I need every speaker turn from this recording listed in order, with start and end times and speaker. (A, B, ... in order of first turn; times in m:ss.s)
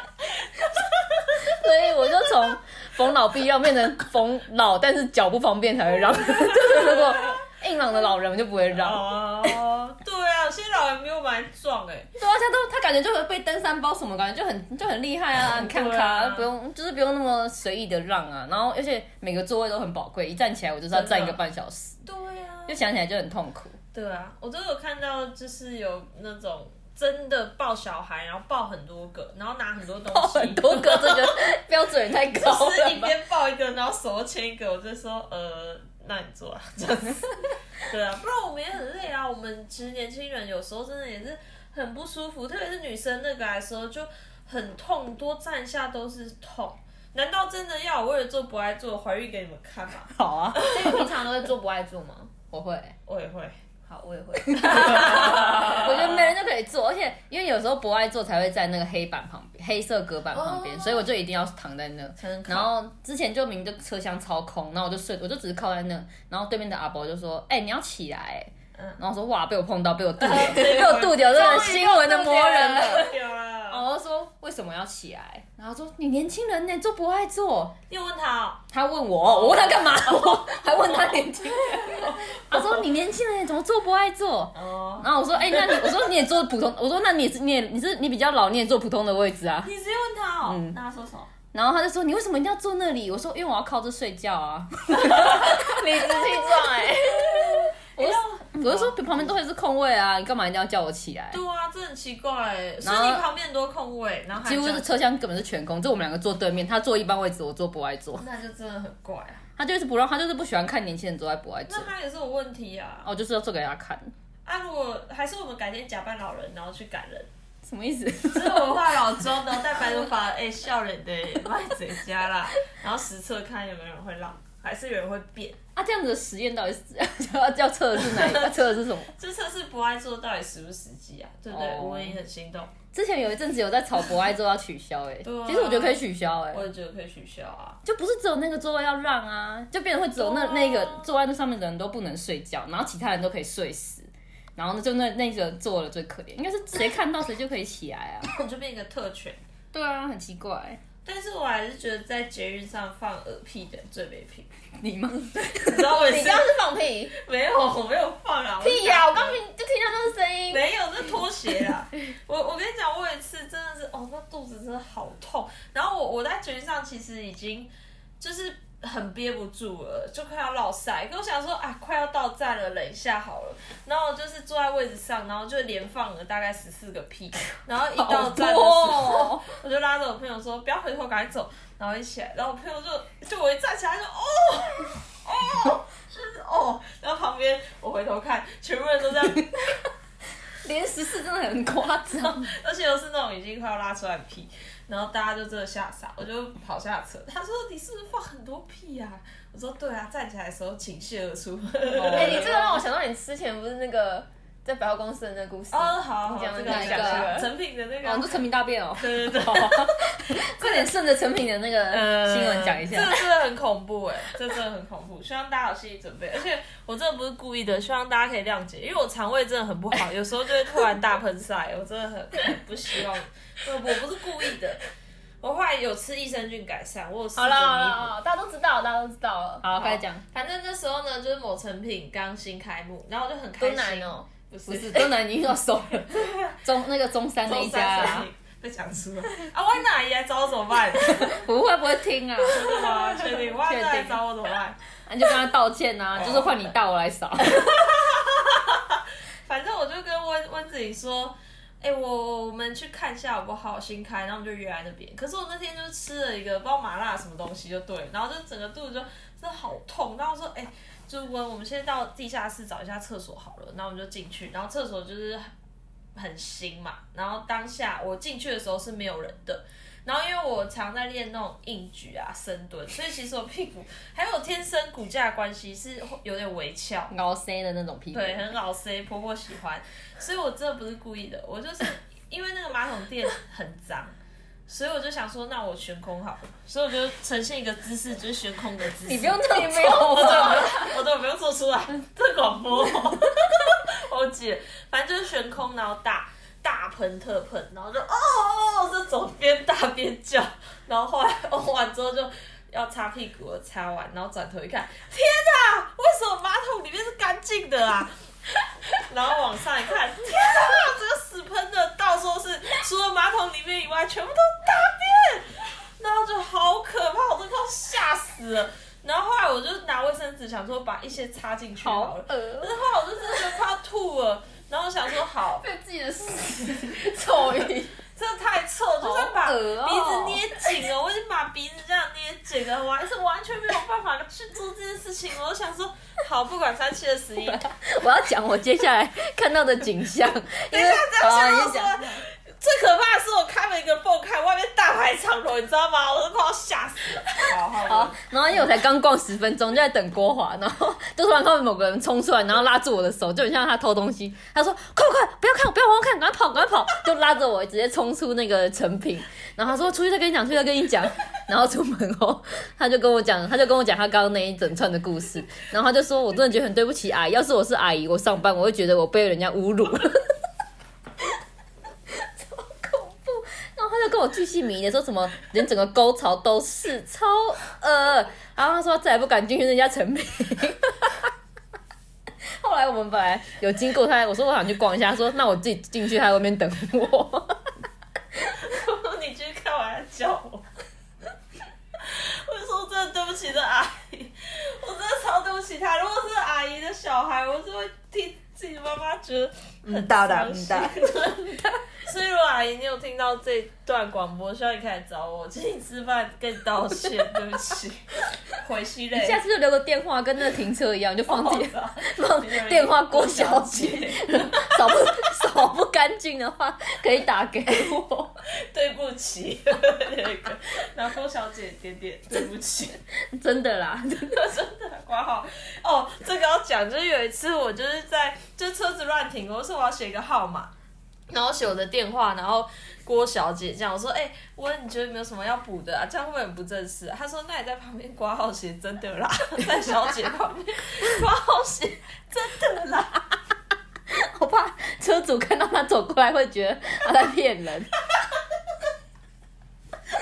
0:01.4-0:09.5 A
0:06.2-0:07.4 B
0:08.7-0:12.1 B
0:12.2-0:22.0 A
0:15.5-0:16.5 B
0:20.9-0:21.4 B
0:22.0-0:22.8 B
0:22.7-0:23.8 A
0:23.9-0:31.5 B
0:30.1-0:33.1 A
0:32.3-0:51.0 B
0:50.1-0:51.0 A
0:50.6-0:52.3 C
0:52.5-0:52.9 A
0:53.0-0:53.6 B
0:53.9-0:55.5 C
0:54.5-1:13.1 A
0:54.6-0:56.3 B
1:00.4-1:00.9 B
1:02.2-1:02.7 B
1:10.2-1:13.8 B
1:11.3-1:13.0 C
1:13.7-1:17.7 A
1:17.9-1:18.6 B
1:18.7-1:29.7 A
1:19.2-1:22.8 B
1:24.5-1:26.0 B
1:29.6-1:31.3 B
1:30.4-1:30.8 A
1:31.5-1:35.8 A
1:35.0-1:37.7 C
1:36.9-1:39.2 B
1:38.0-1:41.4 A
1:41.3-1:45.0 B
1:42.8-1:43.2 A
1:44.4-1:48.2 A
1:48.2-1:49.4 B
1:49.6-1:51.9 A
1:51.7-1:53.1 B
1:53.0-1:54.1 A
1:54.4-1:57.3 B
1:57.6-1:58.8 A
1:58.2-2:05.6 B
2:05.7-2:09.1 A
2:08.0-2:12.7 B
2:11.5-2:12.2 A
2:12.9-2:16.7 A
2:15.2-2:17.8 B
2:17.8-2:28.3 A
2:20.1-2:21.1 B
2:28.2-2:29.4 B
2:29.7-2:30.8 A
2:31.0-2:34.5 B
2:34.8-2:36.0 A
2:35.5-2:39.4 B
2:36.0-2:37.1 C
2:38.6-2:40.6 C
2:40.5-3:09.8 B
2:58.0-2:59.5 A
3:10.6-3:12.5 A
3:12.2-3:22.8 B
3:21.9-3:22.6 A
3:22.1-3:27.5 C
3:25.7-3:28.4 B
3:26.7-3:27.4 A
3:28.0-3:33.2 A
3:29.0-3:30.9 B
3:31.9-3:44.8 B
3:45.4-3:48.1 B
3:47.3-3:49.7 C
3:49.6-3:50.2 A
3:49.8-3:55.2 B
3:53.6-3:54.3 C
3:54.7-3:58.3 A
3:56.1-3:56.6 B
3:57.4-4:01.5 B
4:01.2-4:02.9 A
4:02.4-4:04.8 B
4:03.5-4:04.2 A
4:05.1-4:07.9 A
4:06.2-4:06.6 B
4:07.4-4:25.5 B
4:26.1-4:37.1 B
4:37.1-4:38.5 A
4:38.1-4:44.1 B
4:44.7-5:08.1 B
4:49.0-4:50.9 A
5:08.9-5:25.7 B
5:21.8-5:22.7 A
5:25.6-5:27.9 C
5:28.1-5:37.6 B
5:29.0-5:30.6 A
5:37.4-5:42.2 A
5:40.7-5:48.3 B
5:47.8-6:10.3 A
6:12.2-6:21.3 A
6:22.6-6:27.6 A
6:28.5-6:30.6 B
6:32.0-6:49.4 B
6:39.8-6:41.8 A
6:49.1-6:58.4 A
6:51.3-6:54.9 B
6:58.5-7:03.0 B
7:03.3-7:04.4 A
7:04.3-7:10.7 B
7:11.3-7:23.4 B
7:24.1-7:27.9 A